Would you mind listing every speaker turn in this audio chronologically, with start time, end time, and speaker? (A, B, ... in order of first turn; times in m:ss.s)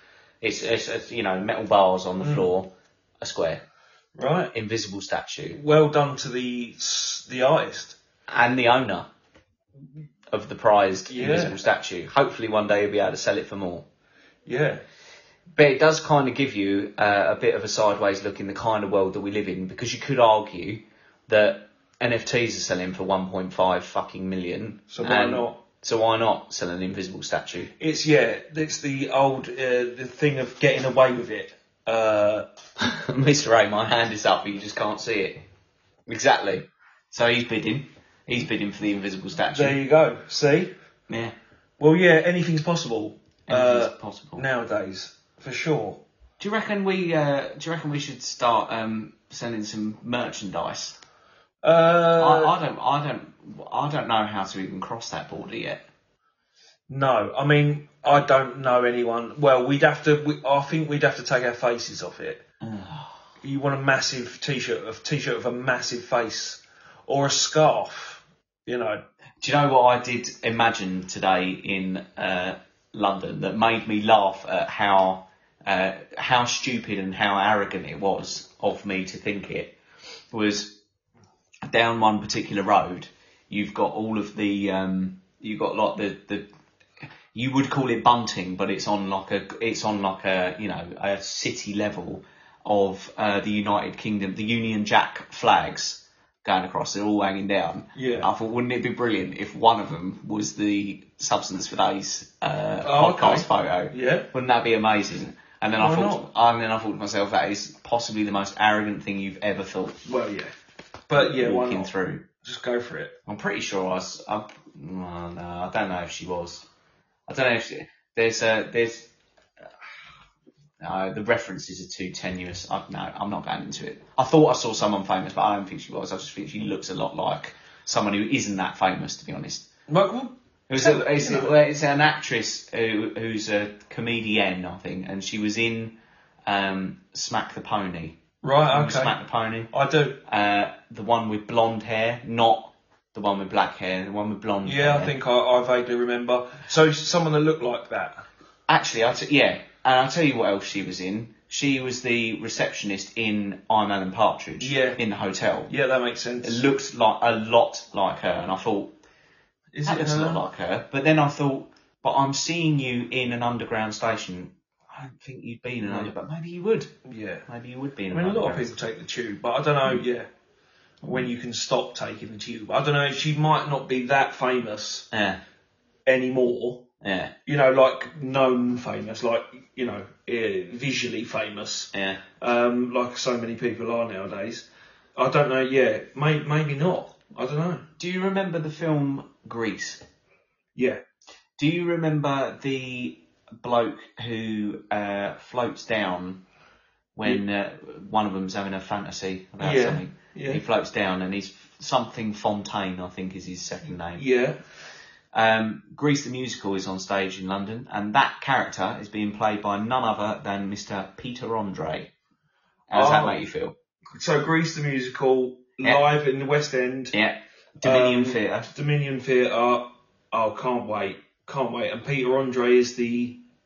0:00.4-0:03.6 A
0:02.2-0:02.5 B
0:04.2-0:04.5 B
0:04.5-0:05.6 A
0:05.5-0:08.0 B
0:08.3-0:09.1 A
0:10.3-0:13.9 A
0:11.1-0:11.6 B
0:14.5-0:14.8 B
0:15.6-0:27.7 A
0:24.9-0:25.6 B
0:27.8-0:32.5 B
0:32.8-0:35.4 A
0:36.1-0:39.8 A
0:39.5-0:40.7 B
0:41.1-0:41.3 A
0:41.8-0:46.0 B
0:43.5-0:44.4 A
0:46.4-0:51.0 A
0:51.6-0:52.5 B
0:52.2-0:55.8 A
0:56.9-1:02.4 B
1:02.6-1:03.3 A
1:03.4-1:09.0 B
1:09.4-1:19.8 A
1:20.3-1:20.8 A
1:21.6-1:26.5 A
1:27.3-1:50.0 A
1:38.0-1:38.3 B
1:42.8-1:44.3 B
1:45.8-1:46.3 B
1:50.1-1:50.5 B
1:51.1-1:53.2 B
1:51.2-1:52.3 A
1:53.3-1:56.7 A
1:57.3-1:59.1 A
2:00.8-2:09.7 A
2:09.9-2:11.6 B
2:10.7-2:19.7 A
2:18.4-2:19.2 B
2:19.7-2:20.2 B
2:20.3-2:25.1 A
2:24.6-2:28.2 B
2:28.7-2:35.7 A
2:34.6-2:35.0 B
2:35.7-2:36.6 B
2:36.4-2:39.0 A
2:39.7-2:40.4 B
2:39.8-2:46.9 A
2:45.9-2:46.1 B
2:47.1-2:47.5 B
2:47.5-2:48.7 A
2:48.1-2:50.3 B
2:51.0-2:55.1 B
2:55.1-2:55.4 A
2:56.1-2:56.9 B
2:57.0-2:57.3 A
2:57.5-3:07.9 B
3:01.9-3:02.2 A
3:08.0-3:10.0 A
3:10.8-3:11.0 B
3:11.6-3:16.4 A
3:17.2-3:24.2 A
3:19.6-3:20.6 B
3:24.1-3:24.6 B
3:25.3-3:32.1 A
3:32.9-3:33.8 A
3:32.9-3:33.4 B
3:34.2-3:37.1 B
3:37.1-3:38.7 A
3:37.8-3:43.4 B